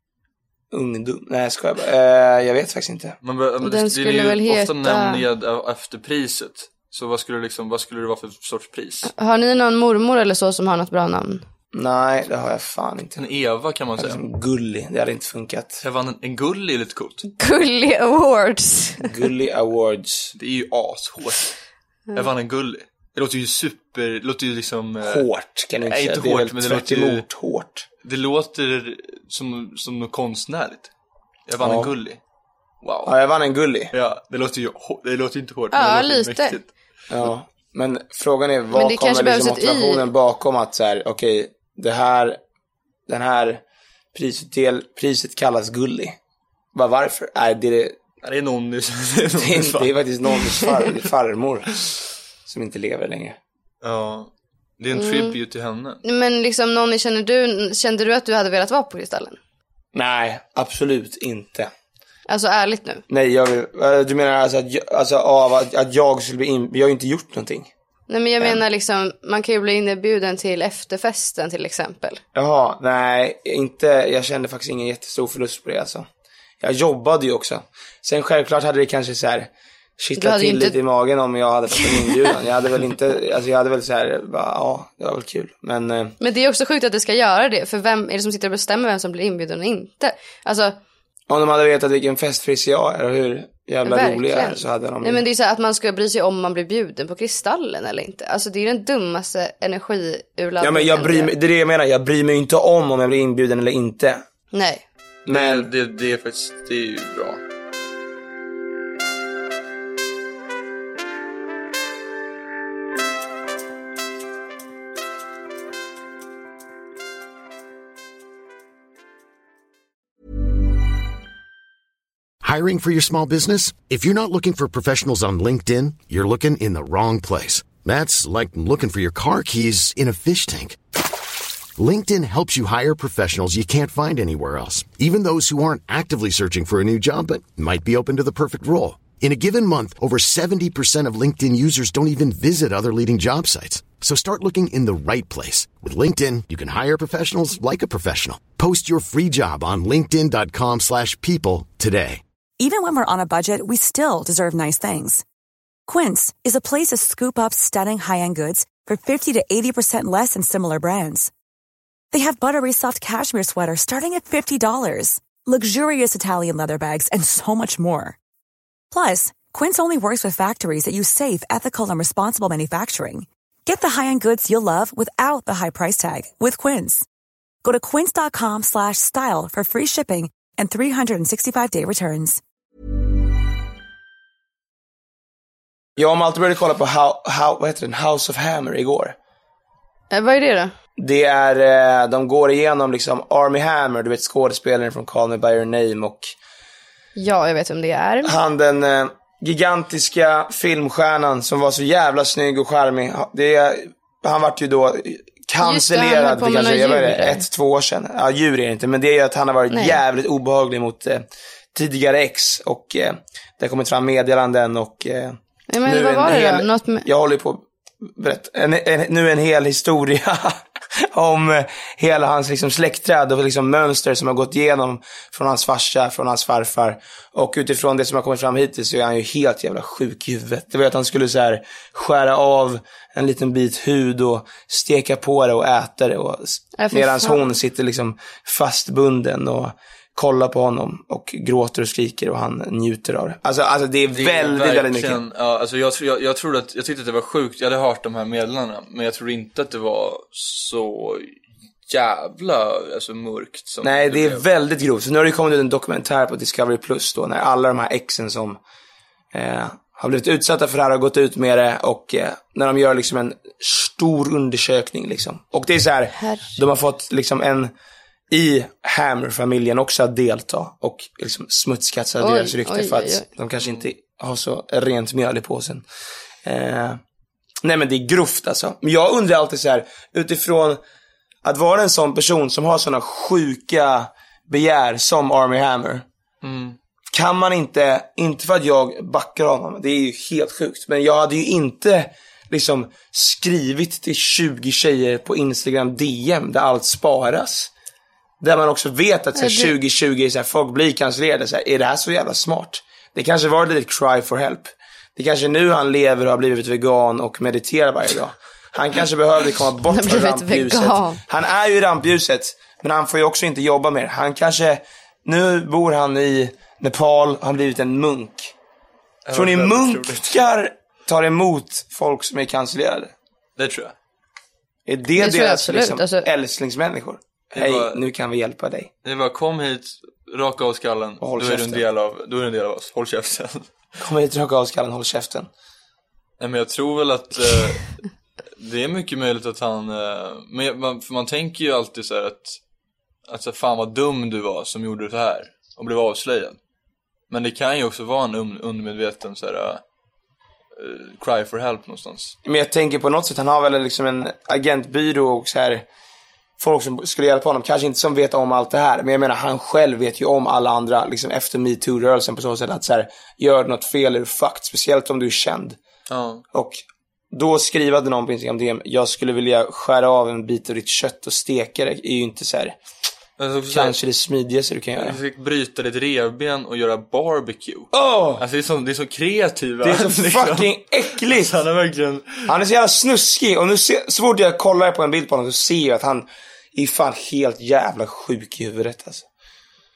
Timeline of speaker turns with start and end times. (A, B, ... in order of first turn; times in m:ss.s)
0:00.7-0:03.2 A
0:03.2-0:09.1 B
0:03.6-0:05.2 C
0:09.0-0:11.4 C
0:11.7-0:13.2 A
0:13.2-0:14.2 B
0:14.0-0:15.8 A
0:15.8-0:17.3 B
0:17.4-0:19.1 C
0:19.0-0:20.3 A
0:20.3-0:21.5 B
0:22.1-0:25.2 B
0:25.0-0:27.8 A
0:25.8-0:27.2 B
0:28.0-0:30.9 B
0:31.5-0:32.2 B
0:31.6-0:31.9 A
0:32.8-0:33.2 B
0:33.0-0:33.9 A
0:33.9-0:36.7 B
0:35.7-0:36.6 C
0:37.1-0:42.4 A
0:38.7-0:40.0 C
0:43.1-0:43.6 A
0:44.1-0:46.2 A
0:46.7-0:48.0 A
0:48.2-0:50.9 B
0:49.4-0:51.8 A
0:52.4-0:53.4 A
0:53.8-0:56.0 B
0:54.9-0:55.4 C
0:56.0-0:59.4 C
0:59.9-1:01.7 A
1:02.3-1:03.0 C
1:03.1-1:07.7 A
1:08.1-1:12.2 C
1:12.3-1:16.1 A
1:16.6-1:26.1 A
1:20.2-1:20.8 C
1:26.2-1:30.8 C
1:31.3-1:35.2 A
1:33.8-1:41.3 C
1:40.6-1:44.2 A
1:44.5-1:44.8 C
1:45.2-1:45.7 A
1:45.3-1:47.4 B
2:02.4-2:10.8 D
2:11.8-2:32.2 D
2:32.6-2:35.2 E
2:35.9-2:41.3 E
2:42.1-2:48.2 E
2:48.9-2:57.0 E
2:57.6-3:02.4 E
3:06.0-3:09.1 A
3:10.1-3:10.7 C
3:11.0-3:16.3 A
3:17.2-3:18.3 C
3:18.2-4:05.2 A
3:25.6-3:27.4 C
3:29.7-3:30.0 C
3:35.7-3:37.0 C
3:56.8-3:57.4 C
4:04.1-4:11.3 B
4:11.9-4:14.4 B
4:13.8-4:18.6 A
4:19.3-4:27.7 A
4:26.2-4:26.6 C
4:28.3-4:35.8 A
4:32.2-4:33.2 C
4:36.4-4:37.0 A
4:37.6-4:40.8 A
4:41.4-4:46.0 A
4:46.4-4:46.8 B
4:47.1-4:57.7 A
4:58.4-5:18.5 A
4:59.4-4:59.7 C
5:09.9-5:11.2 C
5:19.2-5:20.4 B
5:19.3-5:23.1 A
5:23.6-5:23.9 B
5:24.9-5:28.9 A
5:25.2-5:26.3 C
5:27.5-5:28.0 B
5:29.0-5:33.7 B
5:31.2-5:31.8 A
5:34.0-5:35.5 A
5:36.4-5:38.0 B
5:38.6-5:42.6 B
5:43.3-5:46.6 B
5:47.3-5:49.8 B
5:50.8-5:52.4 B
5:52.4-5:55.8 A
5:56.6-6:05.8 A
6:06.1-6:06.4 B
6:06.5-6:12.8 A
6:13.4-6:14.0 B
6:13.7-6:15.2 A
6:15.0-6:22.5 B
6:17.9-6:18.4 A
6:19.8-6:21.5 A
6:22.5-6:29.2 A